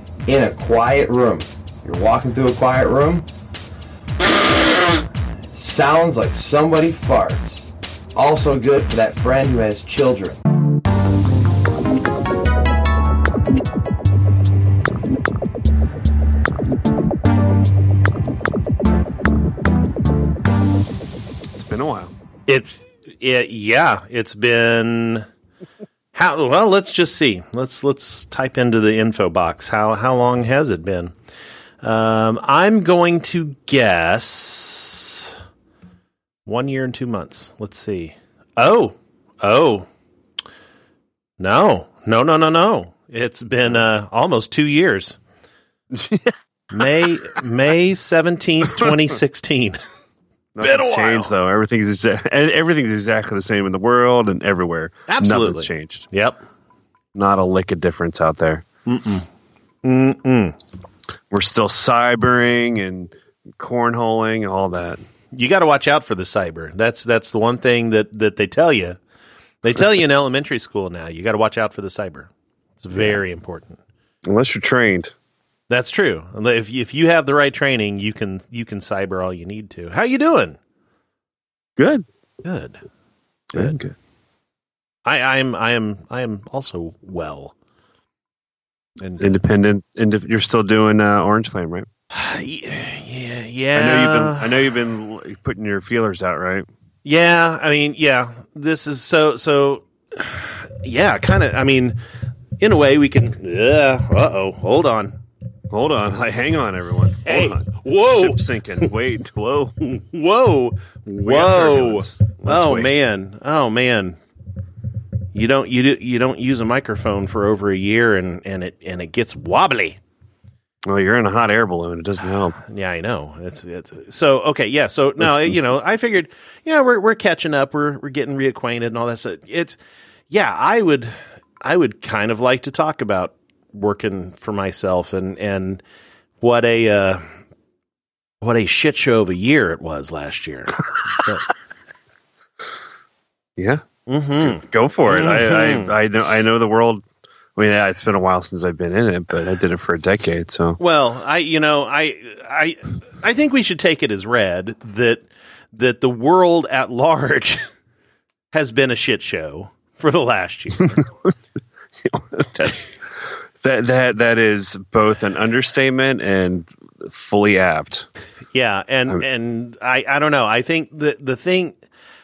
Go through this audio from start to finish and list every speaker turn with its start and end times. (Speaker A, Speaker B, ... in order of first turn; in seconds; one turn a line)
Speaker A: 0.2-3.2
Speaker A: 5.5-10.4
Speaker B: 21.5-22.1
Speaker C: 22.5-25.3
Speaker C: 26.1-31.1
Speaker C: 31.8-35.3
Speaker C: 36.5-39.9
Speaker C: 41.4-45.2
Speaker B: 45.9-46.8
Speaker C: 46.7-49.8
Speaker B: 50.5-56.0
Speaker C: 50.6-51.3
Speaker C: 55.1-56.4
Speaker B: 57.1-58.6
Speaker C: 58.9-59.2
Speaker C: 59.8-60.5
Speaker B: 61.3-65.0
Speaker C: 65.3-69.0
Speaker C: 69.6-73.8
Speaker B: 72.9-73.2
Speaker B: 74.2-75.1
Speaker C: 75.7-80.6
Speaker B: 81.8-82.0
Speaker C: 82.4-82.8
Speaker B: 83.5-84.0
Speaker C: 85.0-87.5
Speaker C: 89.0-89.4
Speaker B: 89.2-91.9
Speaker C: 92.1-94.6
Speaker B: 93.7-96.7
Speaker C: 97.0-102.0
Speaker C: 102.6-105.2
Speaker B: 105.7-109.8
Speaker C: 107.3-108.9
Speaker C: 109.8-114.2
Speaker B: 111.2-113.0
Speaker C: 115.3-120.0
Speaker B: 120.9-122.6
Speaker C: 122.6-129.8
Speaker B: 125.2-125.6
Speaker C: 130.3-135.8
Speaker C: 136.4-137.2
Speaker C: 138.4-141.5
Speaker B: 143.6-143.8
Speaker C: 144.1-145.9
Speaker B: 144.4-147.1
Speaker B: 147.6-150.8
Speaker C: 150.8-157.6
Speaker C: 158.5-161.1
Speaker B: 161.0-161.3
Speaker B: 162.0-168.1
Speaker C: 168.5-171.8